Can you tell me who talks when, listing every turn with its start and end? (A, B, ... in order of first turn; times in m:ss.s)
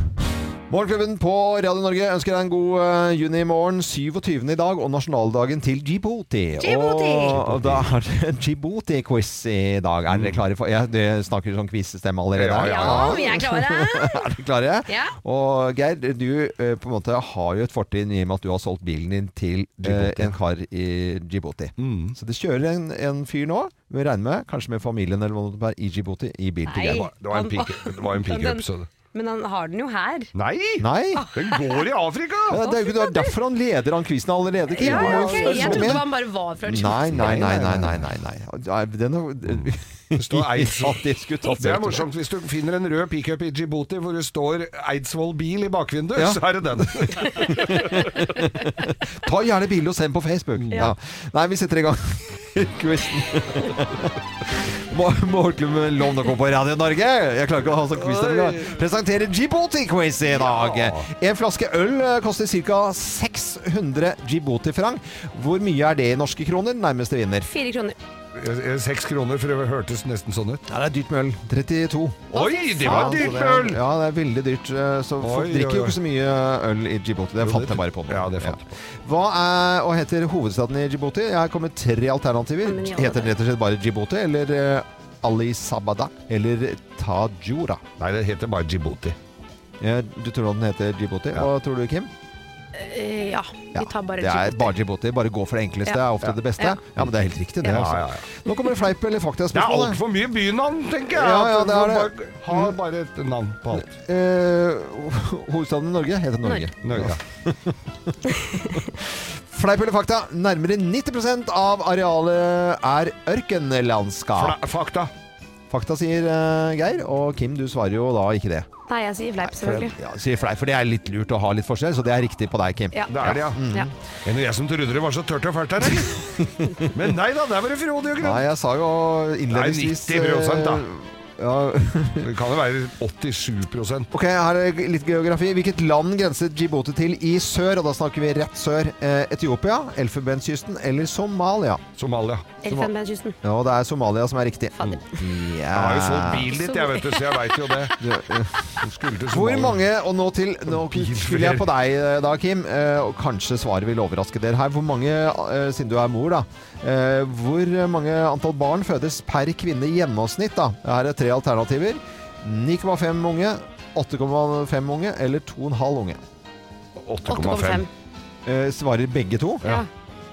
0:00.7-0:27.0 A
0:06.6-0:07.4 B
0:07.3-0:07.9 C
0:10.1-0:10.4 C
0:12.3-0:13.2 C
0:12.7-0:14.3 B
0:14.9-0:15.2 B
0:19.8-0:20.4 C
0:21.8-0:22.2 C
0:26.7-0:30.3 B
0:26.9-0:28.9 C
0:30.3-0:32.7 C
0:30.8-0:31.2 A
0:31.2-0:31.9 B
0:32.5-0:36.0 A
0:32.8-0:33.3 B
0:34.8-0:36.0 C
0:34.8-0:37.4 B
0:36.6-0:42.0 A
0:37.1-0:38.1 C
0:39.5-0:48.2 C
0:46.2-1:07.5 A
0:57.9-0:58.8 C
1:00.3-1:01.0 C
1:07.5-1:08.0 B
1:08.3-1:10.6 C
1:10.7-1:27.8 A
1:12.3-1:13.8 C
1:12.3-1:13.4 B
1:15.2-1:16.0 C
1:17.4-1:18.8 C
1:22.6-1:23.3 B
1:28.0-1:29.2 C
1:29.8-1:32.1 A
1:32.7-1:34.7 B
1:33.7-1:40.0 A
1:37.6-1:38.2 C
1:39.5-1:43.9 C
1:41.1-1:42.7 A
1:43.8-1:48.2 A
1:46.8-1:47.2 C
1:48.7-1:54.6 A
1:54.4-1:55.1 C
1:55.7-1:58.7 A
1:58.9-1:59.9 B
1:59.4-2:03.9 A
2:02.9-2:03.9 B
2:03.1-2:03.6 C
2:04.2-2:08.5 C
2:06.5-2:06.9 A
2:08.2-2:12.3 A
2:09.5-2:10.8 C
2:12.2-2:14.1 C
2:14.1-2:21.8 A
2:22.0-2:22.5 C
2:22.6-2:23.4 B
2:23.4-2:26.5 A
2:24.8-2:25.2 B
2:25.7-2:27.9 C
2:26.5-2:28.0 B
2:28.0-2:28.8 A
2:28.8-2:29.8 C
2:29.3-2:46.2 A
2:30.7-2:31.7 C
2:47.0-2:47.9 C
2:47.3-2:47.9 B
2:48.5-2:49.6 A
2:49.6-2:49.9 B